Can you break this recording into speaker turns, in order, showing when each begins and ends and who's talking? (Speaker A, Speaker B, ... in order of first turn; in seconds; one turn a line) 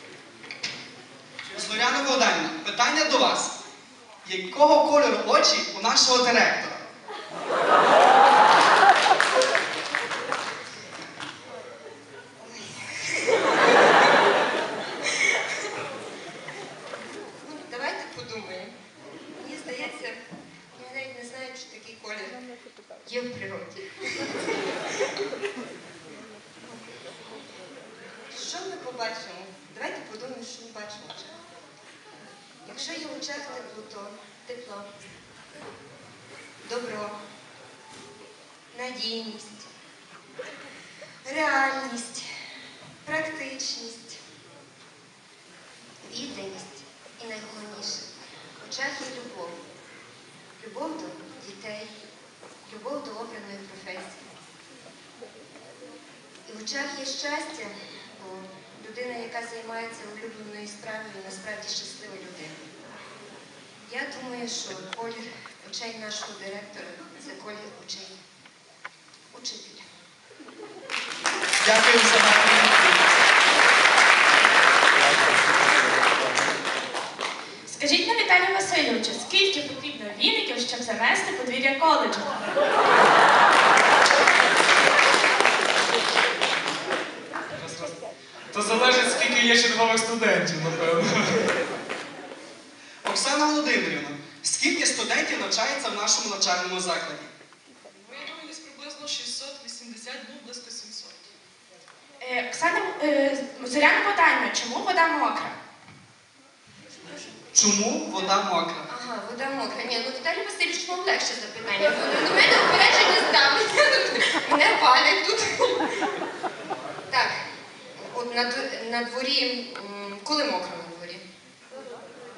Speaker A: 1.5-3.5
Speaker A: 4.2-6.8
Speaker B: 12.4-13.4
Speaker B: 17.4-18.7
Speaker B: 19.4-20.2
Speaker B: 20.8-22.4
Speaker B: 23.0-24.5
Speaker B: 28.3-31.4
Speaker B: 32.6-34.9
Speaker B: 36.6-37.1
Speaker B: 38.7-39.7
Speaker B: 41.2-42.2
Speaker B: 43.0-44.2
Speaker B: 46.0-48.0
Speaker B: 48.6-49.6
Speaker B: 50.6-52.0
Speaker B: 52.6-54.2
Speaker B: 56.5-62.6
Speaker B: 63.8-68.2
Speaker B: 69.3-69.8
Speaker A: 71.5-73.1
Speaker C: 77.7-82.3
Speaker D: 87.5-88.0
Speaker D: 88.5-91.5
Speaker A: 93.0-97.3
Speaker E: 98.1-101.2
Speaker C: 102.2-105.5
Speaker A: 107.5-108.8
Speaker B: 108.9-115.8
Speaker B: 118.0-121.2